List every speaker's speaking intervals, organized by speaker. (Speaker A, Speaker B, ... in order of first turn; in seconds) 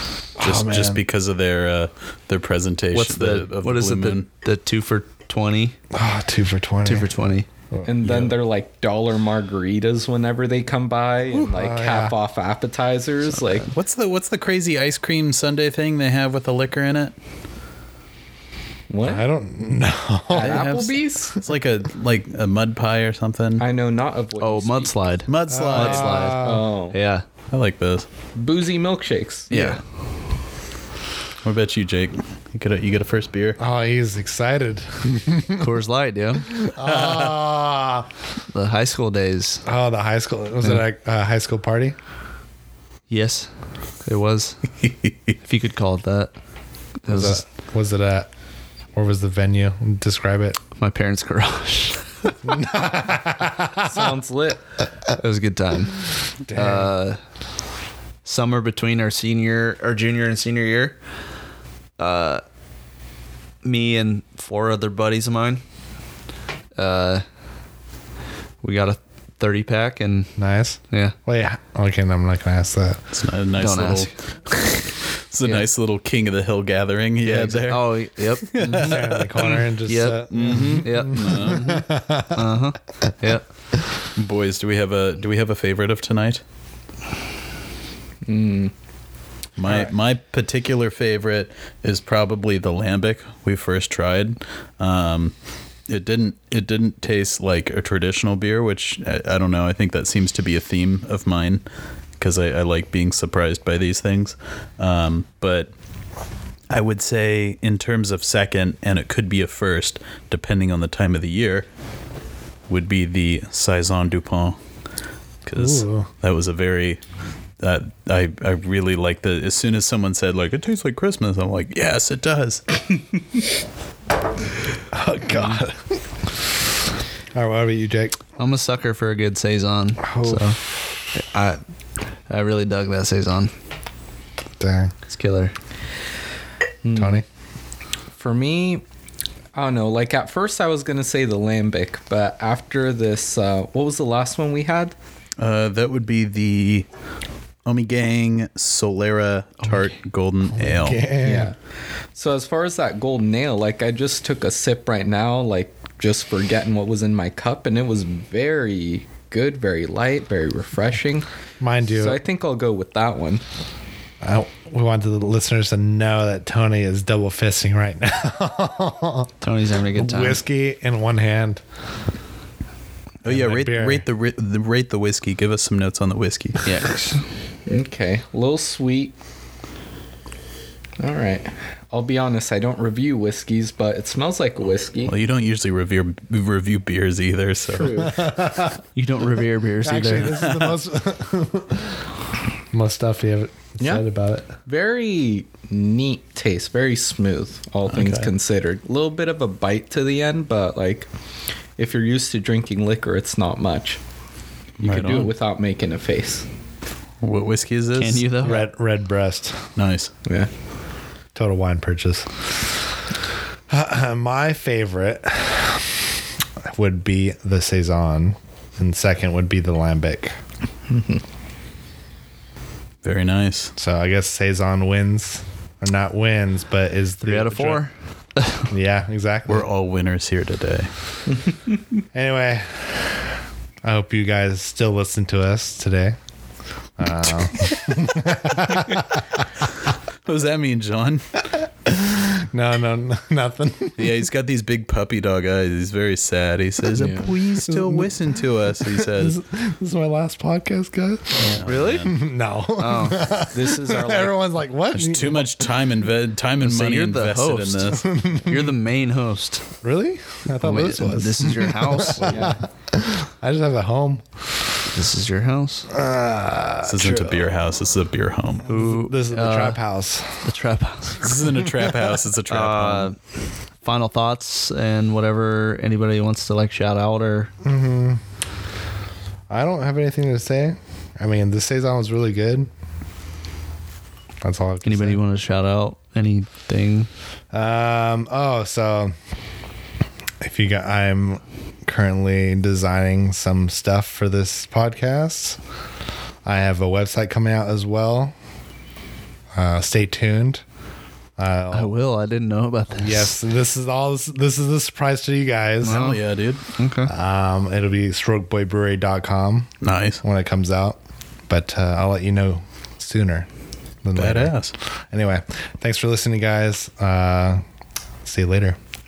Speaker A: 0.4-1.0, 5.9-7.1, 11.3-12.2, 19.0-20.7, 25.5-26.6, 33.6-35.7, 36.4-38.1, 39.7-42.0, 47.1-48.3, 48.9-50.6, 52.5-54.1, 56.5-56.9, 70.4-73.0, 78.8-82.5, 115.6-116.1, 124.9-126.0, 127.3-128.2, 130.0-130.5, 134.6-134.9, 137.0-137.2, 150.6-151.5, 161.6-162.2, 164.2-169.3, 169.9-171.6, 173.3-174.0, 188.0-188.8, 189.8-192.1, 192.7-194.5, 208.4-209.7, 211.3-212.7, 213.7-216.0, 216.6-220.3, 223.8-227.8, 228.7-229.7, 232.1-236.2, 237.0-239.3, 241.9-244.1, 247.5-248.2, 248.8-255.7, 258.0-258.8, 259.8-264.7, 265.9-267.5, 268.7-270.4, 277.6-278.2, 279.5-282.7, 284.4-285.2, 287.5-289.1, 290.4-295.6, 296.4-298.3, 299.6-300.6, 301.4-301.9, 302.9-306.1, 307.1-309.7, 310.2-313.5, 314.0-314.6, 315.1-317.6, 318.2-318.8
Speaker B: 0.4-4.3, 8.0-8.3, 13.7-17.1, 20.4-23.6, 25.3-26.4, 27.5-28.1, 31.4-33.6, 36.8-37.2, 73.1-74.1, 75.3-79.7, 80.3-81.7, 84.2-86.4, 89.6-95.3, 95.9-101.6, 102.2-105.7, 106.7-111.7, 112.7-114.6, 115.5-117.0, 117.6-122.6, 145.4-146.9, 147.7-151.0, 173.2-176.7, 185.1-188.1, 197.9-198.3, 204.8-205.3, 207.2-208.3, 209.8-210.1, 223.0-223.7, 229.5-230.9, 240.2-241.5, 244.0-249.4, 251.4-252.1, 254.9-258.1, 266.8-268.7, 271.2-273.1, 305.8-306.6, 309.8-310.2, 314.2-314.8
Speaker C: 2.9-5.8, 6.8-7.5, 24.4-27.2, 29.5-29.8, 35.6-36.5, 38.5-39.6, 43.1-43.5, 44.0-44.6, 45.4-46.3, 47.0-47.4, 50.8-52.4, 55.1-57.2, 58.2-61.0, 62.0-62.4, 63.6-65.6, 66.8-67.2, 68.6-70.3, 70.9-71.2, 73.6-74.1, 77.2-79.2, 79.9-83.5, 128.4-130.6, 131.1-131.6, 132.3-133.5, 135.1-135.5, 169.4-170.4, 176.6-177.2, 188.9-190.6, 208.0-208.7, 227.2-228.7, 251.7-252.2, 252.8-253.2, 256.6-259.7, 260.6-262.5, 264.9-265.9, 268.7-269.8, 270.4-271.4, 272.5-273.2, 273.8-277.5, 284.9-287.1, 301.7-303.4, 305.8-306.2, 306.8-307.1
Speaker D: 7.8-13.7, 18.9-19.3, 20.3-21.4, 23.6-24.9, 26.4-27.0, 28.4-29.6, 53.8-54.6, 88.3-88.7, 136.8-137.2, 138.2-138.8, 139.5-145.0, 151.2-151.6, 152.1-161.3, 161.9-163.4, 177.7-179.1, 181.0-185.2, 187.7-188.2, 194.7-201.1, 201.8-204.0, 204.8-206.5, 220.9-221.2, 231.3-231.8, 247.0-247.3, 253.5-254.3, 262.2-262.6